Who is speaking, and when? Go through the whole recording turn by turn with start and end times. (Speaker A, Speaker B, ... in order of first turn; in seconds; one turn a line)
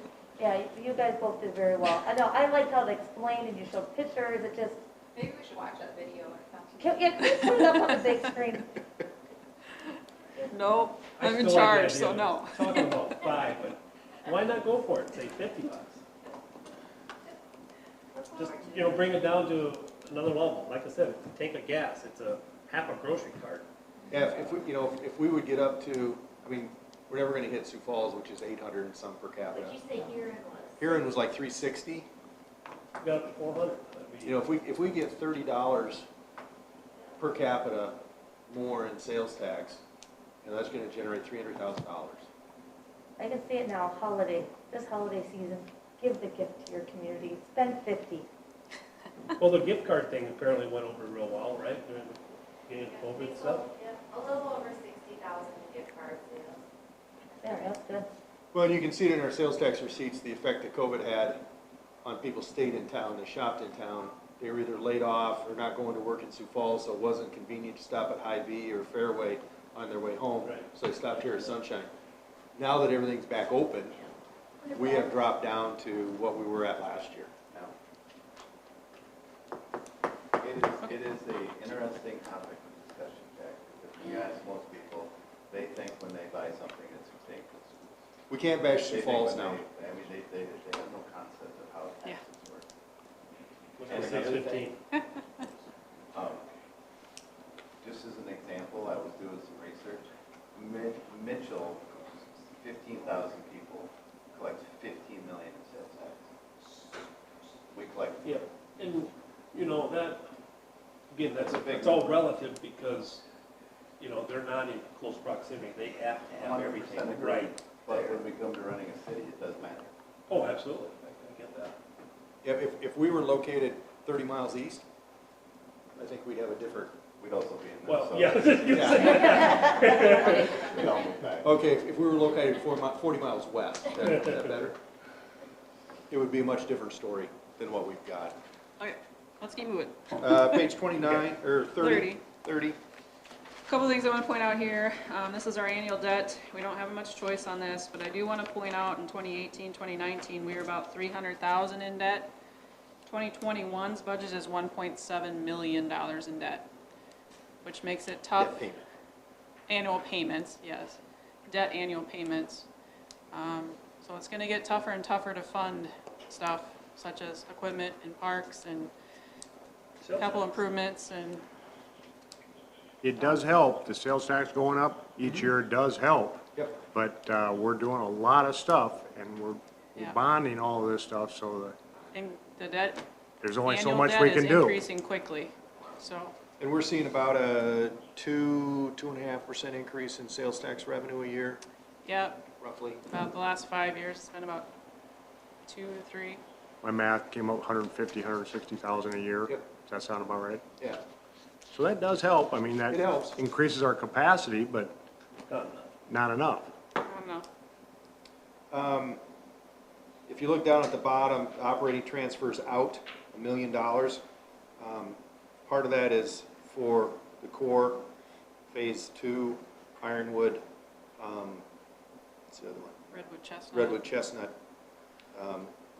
Speaker A: 0.4-4.8
Speaker B: 5.1-7.0
Speaker A: 6.7-8.7
Speaker C: 10.5-13.2
Speaker D: 11.1-16.0
Speaker E: 18.1-19.3
Speaker D: 18.3-23.6
Speaker F: 24.1-29.8
Speaker E: 29.5-30.9
Speaker F: 30.8-32.1
Speaker D: 33.0-34.4
Speaker F: 34.2-36.0
Speaker F: 37.2-39.8
Speaker F: 40.4-42.2
Speaker A: 43.2-48.3
Speaker D: 49.4-53.7
Speaker B: 52.9-54.5
Speaker E: 53.8-56.6
Speaker A: 57.4-58.1
Speaker F: 58.5-61.5
Speaker F: 62.0-71.9
Speaker D: 70.4-71.5
Speaker F: 72.5-74.0
Speaker E: 74.6-75.1
Speaker F: 74.7-77.7
Speaker G: 80.4-88.0
Speaker F: 88.3-89.6
Speaker G: 88.8-92.7
Speaker D: 93.8-94.8
Speaker G: 93.8-94.7
Speaker G: 96.1-96.5
Speaker G: 97.8-106.3
Speaker G: 107.7-108.4
Speaker D: 108.2-110.3
Speaker D: 111.1-113.2
Speaker G: 111.3-112.3
Speaker D: 114.0-117.5
Speaker G: 116.3-119.9
Speaker D: 120.3-121.7
Speaker F: 122.4-124.8
Speaker F: 126.0-127.0
Speaker G: 127.2-128.9
Speaker D: 127.8-130.7
Speaker F: 128.7-130.5
Speaker G: 129.8-131.5
Speaker F: 131.4-134.8
Speaker F: 136.1-138.4
Speaker C: 138.8-141.2
Speaker F: 140.2-142.8
Speaker C: 141.8-142.2
Speaker C: 143.7-152.3
Speaker C: 153.0-156.7
Speaker C: 157.6-158.6
Speaker F: 158.3-158.8
Speaker C: 159.7-162.7
Speaker C: 163.3-168.9
Speaker D: 170.0-170.4
Speaker C: 170.2-171.4
Speaker H: 173.0-181.8
Speaker F: 176.6-176.8
Speaker C: 182.1-183.0
Speaker H: 183.4-184.8
Speaker C: 183.6-186.3
Speaker F: 186.6-191.6
Speaker C: 192.0-192.4
Speaker F: 192.6-193.0
Speaker C: 193.1-194.7
Speaker C: 195.7-196.4
Speaker H: 196.8-200.6
Speaker H: 201.7-204.9
Speaker F: 202.9-203.4
Speaker D: 205.5-205.9
Speaker H: 206.1-206.7
Speaker C: 207.0-207.4
Speaker F: 208.7-209.2
Speaker F: 210.3-214.2
Speaker F: 214.8-218.1
Speaker F: 218.7-220.6
Speaker F: 221.2-221.6
Speaker F: 222.5-223.0
Speaker C: 223.1-224.0
Speaker F: 223.7-224.5
Speaker F: 225.3-225.7